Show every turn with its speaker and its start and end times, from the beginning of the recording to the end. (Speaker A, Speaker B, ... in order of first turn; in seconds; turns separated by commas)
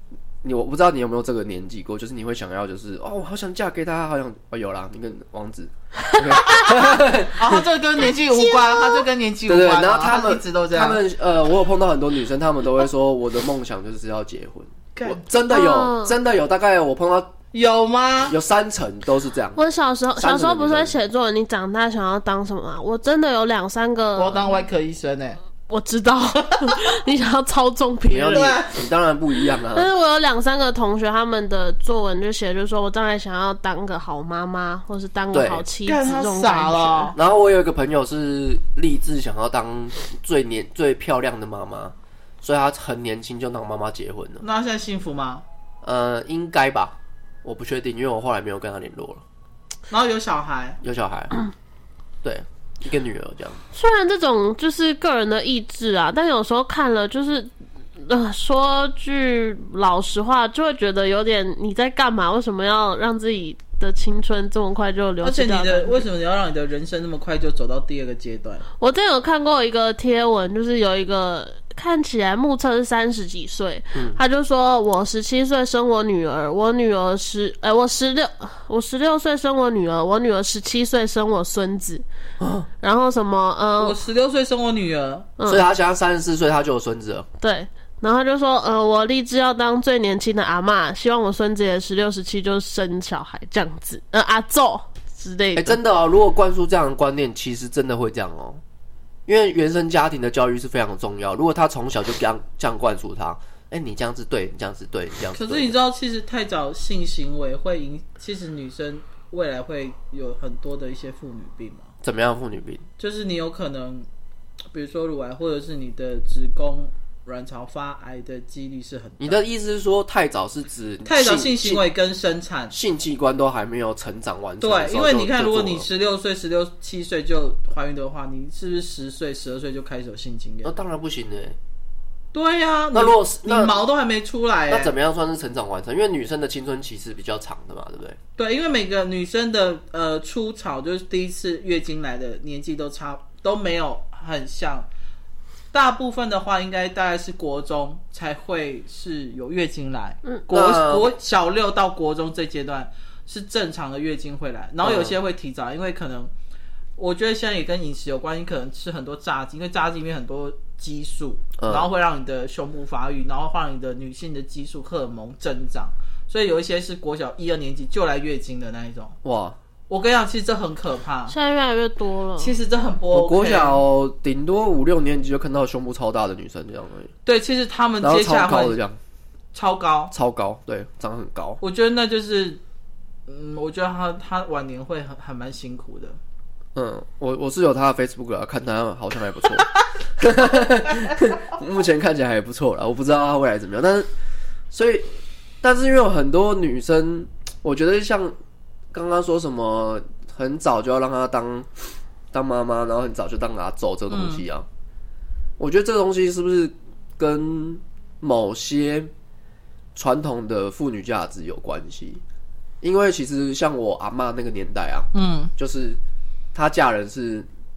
Speaker A: 0.4-7.7, Speaker B: 6.4-6.8, Speaker B: 7.3-11.0, Speaker C: 8.3-9.1, Speaker A: 9.5-17.4, Speaker B: 14.9-15.2, Speaker C: 15.5-16.1, Speaker B: 17.5-18.4, Speaker A: 18.3-19.6, Speaker C: 19.6-24.6, Speaker A: 20.2-20.9, Speaker B: 24.1-25.4, Speaker C: 25.7-28.6, Speaker A: 28.1-29.9, Speaker B: 28.3-28.8, Speaker C: 29.7-37.1, Speaker A: 35.3-35.6, Speaker B: 35.8-37.1, Speaker A: 37.1-44.4, Speaker B: 44.4-45.4, Speaker A: 45.8-49.2, Speaker B: 49.9-50.8, Speaker A: 50.8-51.3, Speaker A: 52.2-53.6, Speaker C: 53.7-66.0, Speaker B: 65.2-68.6, Speaker C: 68.8-82.0, Speaker A: 73.9-74.2, Speaker A: 82.4-82.7, Speaker C: 82.8-84.0, Speaker B: 83.8-85.3, Speaker C: 85.4-85.6, Speaker A: 85.5-87.3, Speaker C: 87.4-95.8, Speaker A: 95.5-98.6, Speaker A: 99.2-105.7, Speaker B: 105.3-111.9, Speaker A: 112.0-112.8, Speaker B: 113.0-114.1, Speaker B: 114.7-119.4, Speaker A: 119.2-121.8, Speaker B: 121.0-122.7, Speaker A: 122.7-125.9, Speaker B: 124.6-130.7, Speaker A: 130.6-131.6, Speaker B: 132.3-134.9, Speaker A: 132.9-133.8, Speaker A: 134.7-138.2, Speaker B: 138.4-144.9, Speaker B: 145.7-156.3, Speaker A: 150.5-151.1, Speaker A: 154.8-155.2, Speaker B: 157.0-169.2, Speaker A: 161.6-161.9, Speaker A: 169.2-169.6, Speaker B: 169.9-171.3, Speaker C: 171.3-172.5, Speaker B: 172.4-173.8, Speaker A: 173.1-177.1, Speaker B: 177.2-178.8, Speaker A: 178.0-179.0, Speaker B: 179.5-180.1, Speaker A: 180.1-181.6, Speaker B: 181.6-182.6, Speaker B: 183.3-186.2, Speaker A: 186.7-194.1, Speaker A: 194.7-195.1, Speaker A: 195.6-198.3, Speaker A: 198.9-204.7, Speaker B: 204.1-204.4, Speaker A: 205.6-209.1, Speaker A: 209.9-212.2, Speaker A: 212.8-216.0, Speaker B: 215.1-215.5, Speaker A: 216.5-217.5